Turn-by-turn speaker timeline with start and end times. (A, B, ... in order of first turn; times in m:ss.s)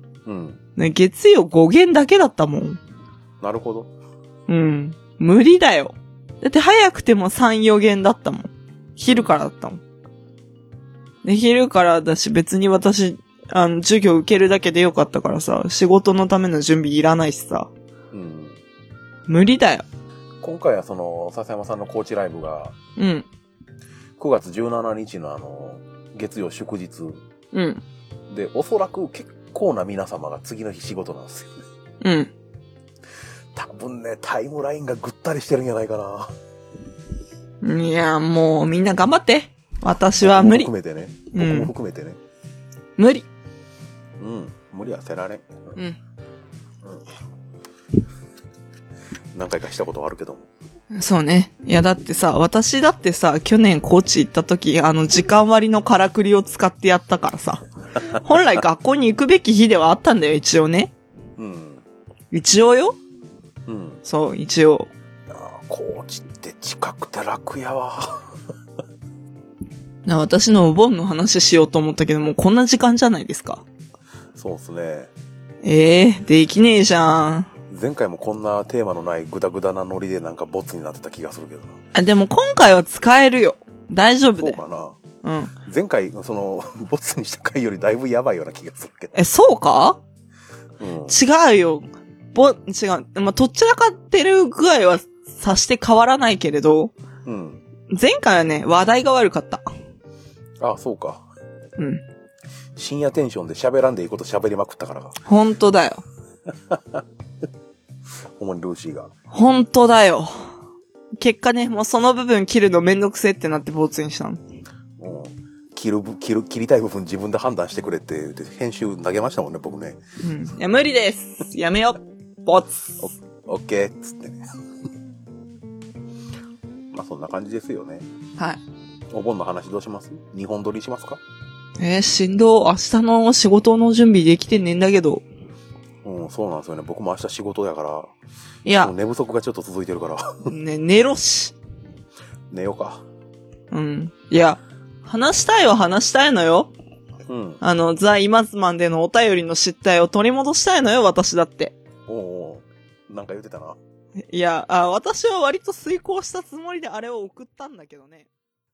0:00.3-0:00.6 A
0:00.8-0:02.8 B
0:03.4-0:03.9 A
0:04.5-0:09.8 B
0:09.1-0:09.3 A
0:11.2-0:17.7 B
0:18.1-0:18.6 A
0:19.3-0:19.9 B
0:20.4-0:22.8 A
0:23.0-0:23.3 B
0:24.2-0:27.2 A
0:27.5-0:27.8 B
0:28.3-0:31.6 A
0:32.0-0:32.3 B
0:33.6-0:36.3 A
0:37.6-0:40.7 B
0:40.2-0:42.2 A
0:41.3-0:41.7 B
0:43.0-0:43.3 B
0:44.2-0:45.8 A
0:49.3-0:50.5 A
0:50.9-1:00.9 B
1:01.4-1:01.8 A
1:02.3-1:03.0 B
1:03.7-1:04.0 A
1:04.0-1:04.9 B
1:05.3-1:08.3 A
1:10.1-1:13.6 B
1:14.4-1:15.1 A
1:15.6-1:17.5 B
1:17.7-1:21.8 A
1:21.9-1:24.6 B
1:24.4-1:25.0 A
1:25.2-1:25.5 B
1:25.6-1:29.2 A
1:29.2-1:30.0 B
1:30.8-1:31.2 A
1:31.1-1:36.9 B
1:37.2-1:37.6 A
1:37.9-1:39.6 B
1:40.6-1:41.2 A
1:41.8-1:42.0 B
1:42.8-1:45.2 A
1:45.3-1:46.0 B
1:46.7-1:47.0 A
1:48.4-1:49.1 A
1:49.3-1:50.3 B
1:51.2-1:54.4 B
1:55.0-2:00.0 A
2:00.2-2:02.9 B
2:03.0-2:04.4 A
2:06.9-2:08.1 A
2:09.1-2:11.2 A
2:11.8-2:15.2 B
2:16.0-2:18.1 A
2:18.6-2:18.9 B
2:18.8-2:20.5 A
2:20.5-2:21.6 B
2:22.5-2:23.0 A
2:23.7-2:26.7 B
2:27.3-2:27.6 A
2:27.6-2:31.8 B
2:32.1-2:33.8 A
2:34.3-2:38.3 B